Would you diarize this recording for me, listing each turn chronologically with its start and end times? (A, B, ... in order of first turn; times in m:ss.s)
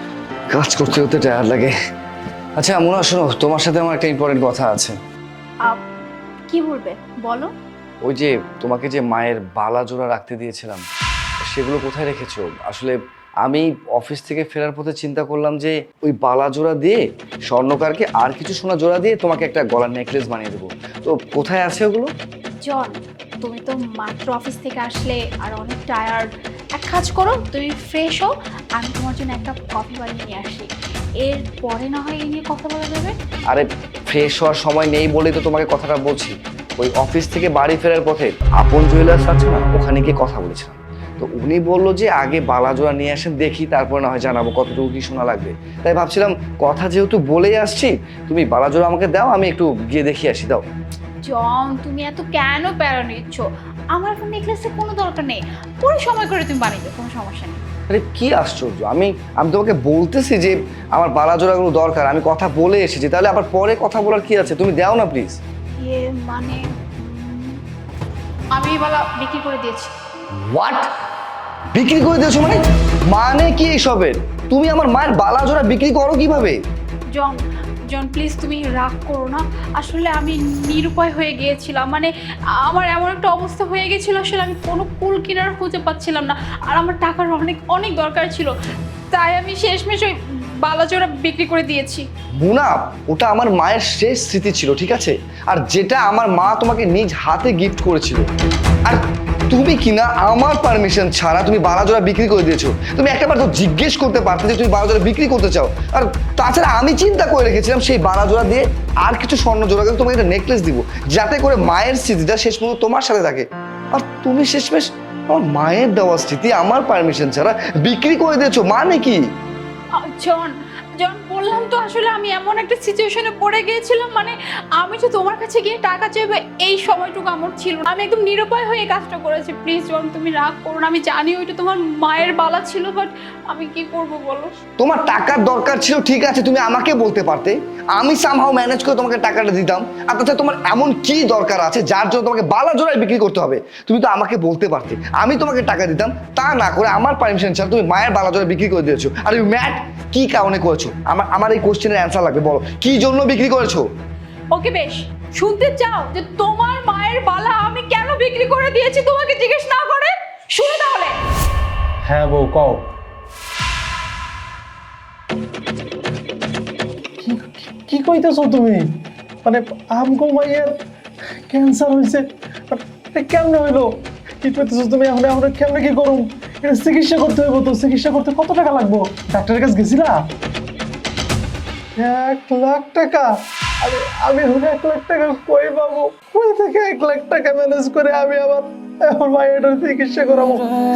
0:00.5-0:01.7 A
0:02.6-0:05.0 A
0:06.5-0:07.5 B
0:08.0-0:10.9 A
0:11.5-0:22.1 A
0:22.6-0:30.7 B
0:31.2-0:33.2 B
0:33.5-0:50.6 A
0:51.2-0:57.6 B
0:57.9-1:05.4 A
1:05.8-1:07.6 B
1:08.6-1:09.9 B
1:10.5-1:10.9 A
1:11.7-1:16.6 A
1:17.2-1:28.5 B
1:29.1-1:32.1 B
1:32.4-1:38.3 A
1:38.9-1:59.2 A
2:00.0-2:14.5 B
2:14.8-2:33.9 A
2:34.5-2:41.2 B
2:42.1-2:42.8 C
2:47.2-2:48.8 C
2:49.4-2:50.7 C
2:51.5-2:53.9 C
2:54.4-3:00.2 C
3:02.0-3:03.3 C
3:03.8-3:10.7 C